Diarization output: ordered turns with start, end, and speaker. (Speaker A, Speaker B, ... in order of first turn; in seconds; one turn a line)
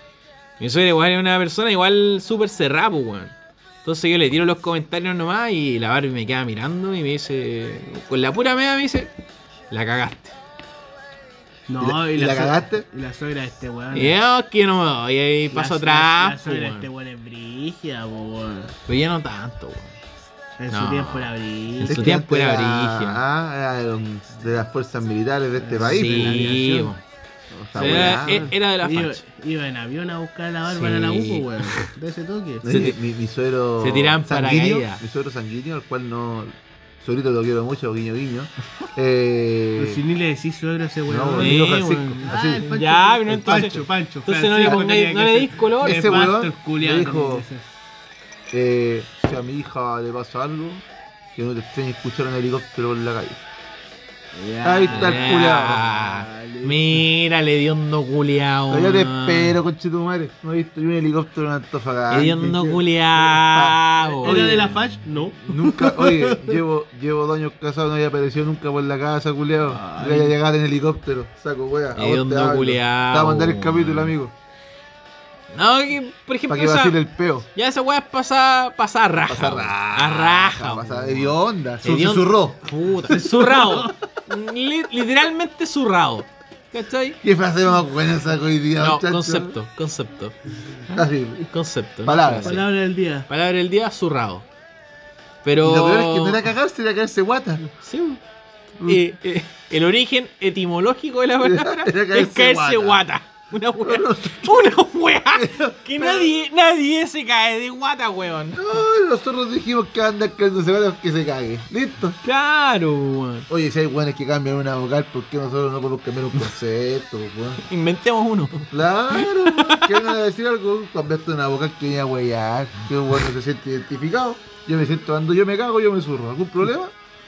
Speaker A: 0.6-9.1
Speaker A: 9.7-10.3
Speaker B: 11.7-14.2
Speaker C: 11.8-12.8
Speaker A: 13.9-16.9
Speaker B: 15.5-18.7
Speaker A: 18.9-19.9
Speaker B: 20.6-22.1
Speaker A: 20.7-23.2
Speaker C: 21.9-26.6
Speaker B: 25.6-26.9
Speaker A: 25.9-27.0
Speaker B: 27.5-32.7
Speaker C: 27.7-28.5
Speaker A: 27.7-29.2
Speaker A: 30.6-31.9
Speaker C: 32.6-40.0
Speaker A: 32.6-33.0
Speaker A: 33.8-35.0
Speaker B: 39.8-47.6
Speaker C: 41.1-42.6
Speaker A: 41.4-46.1
Speaker C: 43.3-43.8
Speaker C: 45.8-47.4
Speaker C: 48.5-50.8
Speaker C: 51.4-53.4
Speaker B: 54.3-57.0
Speaker C: 54.6-55.9
Speaker A: 54.9-59.6
Speaker C: 58.7-64.7
Speaker A: 62.1-64.8
Speaker B: 64.2-66.6
Speaker C: 65.4-74.3
Speaker A: 69.7-70.3
Speaker A: 71.9-74.1
Speaker A: 75.5-77.0
Speaker C: 76.5-77.5
Speaker A: 77.5-87.2
Speaker C: 79.3-83.8
Speaker B: 83.4-83.9
Speaker C: 87.2-89.6
Speaker A: 88.8-92.7
Speaker C: 90.9-91.4
Speaker C: 92.0-92.6
Speaker B: 92.4-93.3
Speaker A: 93.3-94.4
Speaker A: 95.4-96.4
Speaker C: 95.6-97.6
Speaker A: 97.8-98.2
Speaker A: 98.8-108.7
Speaker C: 101.4-103.0
Speaker C: 103.8-104.7
Speaker C: 105.3-106.3
Speaker C: 108.5-112.2
Speaker A: 112.2-113.5
Speaker C: 113.5-117.6
Speaker A: 117.6-120.1
Speaker C: 118.7-126.9